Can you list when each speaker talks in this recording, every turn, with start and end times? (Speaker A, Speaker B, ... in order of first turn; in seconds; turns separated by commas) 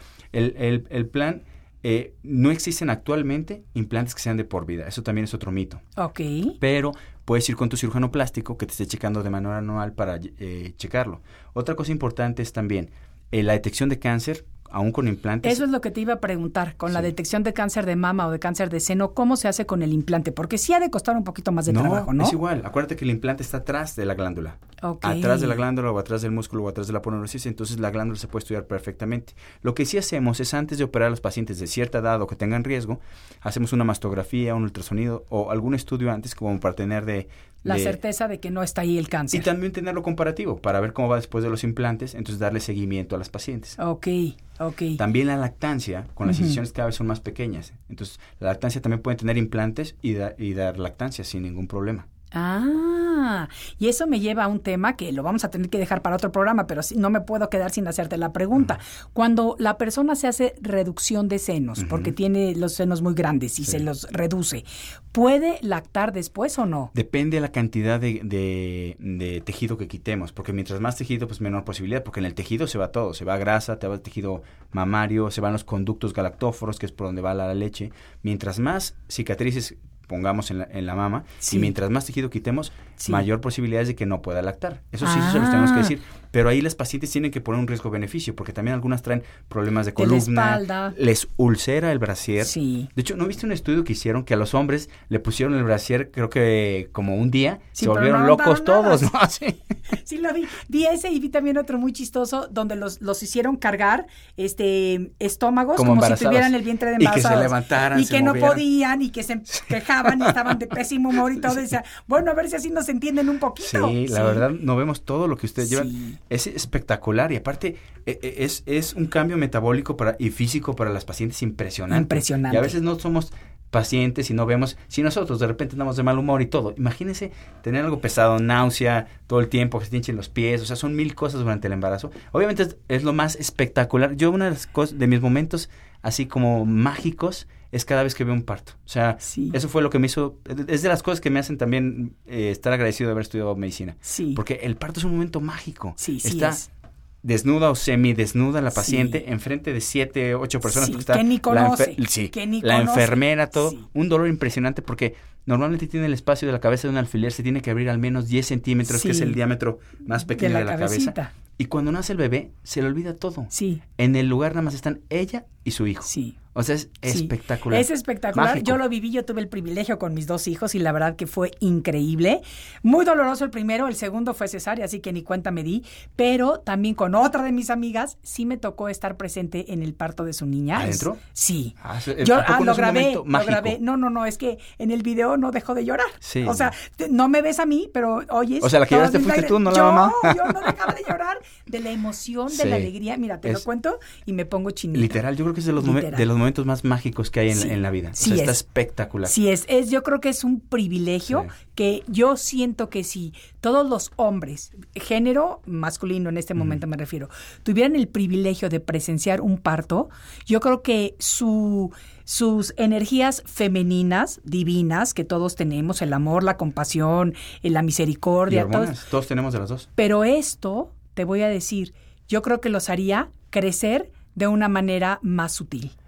Speaker A: 0.3-5.8, Speaker B: 6.0-6.6, Speaker A: 6.6-15.6, Speaker B: 15.4-22.4, Speaker A: 21.7-38.0, Speaker B: 24.8-25.6, Speaker B: 37.6-39.5, Speaker A: 39.3-43.8, Speaker B: 43.8-45.0, Speaker A: 45.0-52.1, Speaker B: 46.2-46.6, Speaker B: 52.3-66.9, Speaker A: 61.8-62.1, Speaker A: 66.9-99.6, Speaker B: 81.4-81.7, Speaker B: 85.0-85.9, Speaker B: 90.0-91.0, Speaker B: 92.4-92.9, Speaker B: 97.8-99.1, Speaker B: 99.9-114.5, Speaker A: 105.7-108.6, Speaker A: 113.6-146.6, Speaker B: 115.6-116.2, Speaker B: 121.9-122.7, Speaker B: 139.2-139.6, Speaker B: 144.1-144.4, Speaker B: 146.0-146.7, Speaker A: 147.2-168.8, Speaker B: 148.7-149.2, Speaker B: 150.6-153.8, Speaker B: 158.8-159.4, Speaker B: 160.2-161.3, Speaker B: 163.5-163.8, Speaker B: 166.1-166.3, Speaker B: 167.1-195.2, Speaker A: 180.7-181.2, Speaker A: 181.8-183.8, Speaker A: 186.2-186.7, Speaker A: 188.6-190.7, Speaker A: 192.5-192.9, Speaker A: 194.9-199.3, Speaker B: 195.8-196.2, Speaker B: 197.5-198.6, Speaker B: 199.2-218.9, Speaker A: 201.2-201.5, Speaker A: 218.5-219.9, Speaker B: 219.9-225.9